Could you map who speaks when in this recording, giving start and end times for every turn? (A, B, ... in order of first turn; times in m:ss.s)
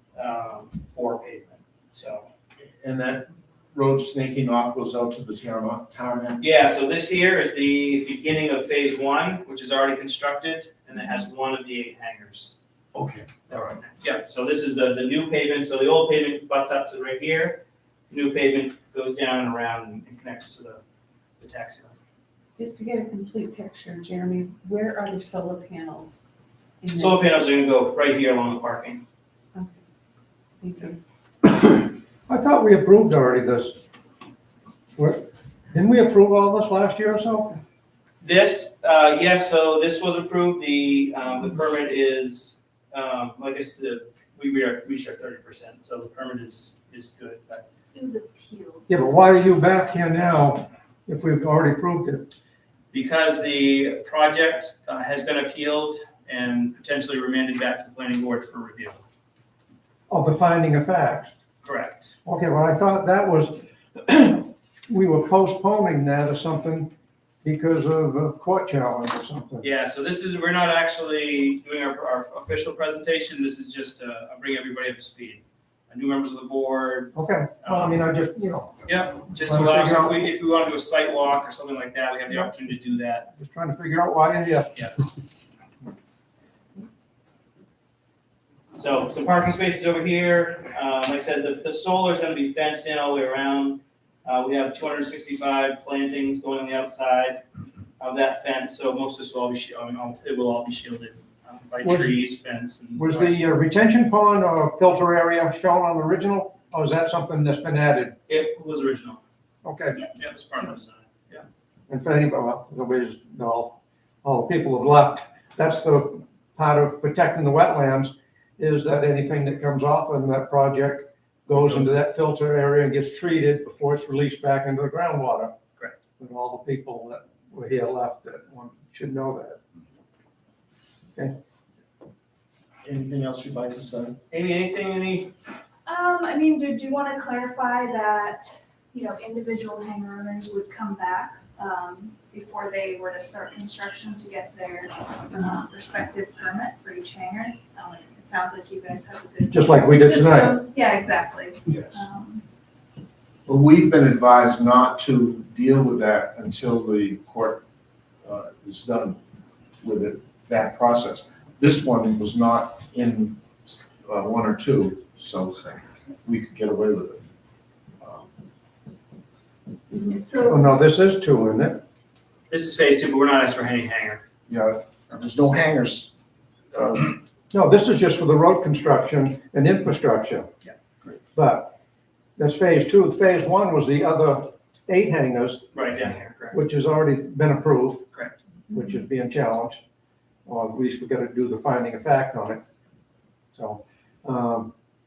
0:00.1-0:02.3 A
0:02.7-0:06.4 B
0:06.4-0:12.5 A
0:12.9-0:13.7 B
0:13.5-0:20.8 A
0:21.4-0:22.0 A
0:22.6-0:26.2 C
0:26.8-0:27.3 C
0:26.9-0:29.0 A
0:29.5-0:29.8 C
0:30.6-0:31.0 C
0:31.5-0:33.8 D
0:35.0-0:37.6 D
0:38.2-0:47.6 A
0:47.9-0:48.9 E
0:48.9-0:52.3 D
0:52.9-0:59.0 A
1:00.1-1:01.3 D
1:01.6-1:02.1 A
1:02.2-1:06.9 D
1:07.4-1:09.6 D
1:09.6-1:18.0 A
1:17.1-1:18.8 D
1:18.8-1:23.3 A
1:19.3-1:20.2 D
1:22.3-1:22.6 D
1:23.3-1:24.8 D
1:28.7-1:37.4 A
1:38.0-1:43.4 A
1:41.8-1:42.2 D
1:42.9-1:48.2 D
1:48.3-1:49.2 A
1:49.6-1:50.0 D
1:50.1-1:51.4 A
1:51.9-2:05.5 D
2:06.2-2:09.6 D
2:12.8-2:14.2 B
2:14.3-2:15.3 A
2:15.8-2:32.4 E
2:29.5-2:30.6 D
2:31.7-2:32.0 B
2:33.5-2:37.6 B
2:38.2-2:39.2 B
2:39.8-2:47.2 B
2:48.0-2:48.3 B
2:50.1-2:50.6 E
2:50.4-2:51.8 D
2:52.5-2:54.2 A
2:54.5-2:56.1 B
2:56.7-2:57.2 B
2:57.5-3:00.5 D
3:01.3-3:01.7 D
3:02.4-3:05.8 D
3:05.7-3:06.6 A
3:06.5-3:08.1 D
3:08.7-3:09.8 D
3:10.4-3:12.6 D
3:13.5-3:14.7 D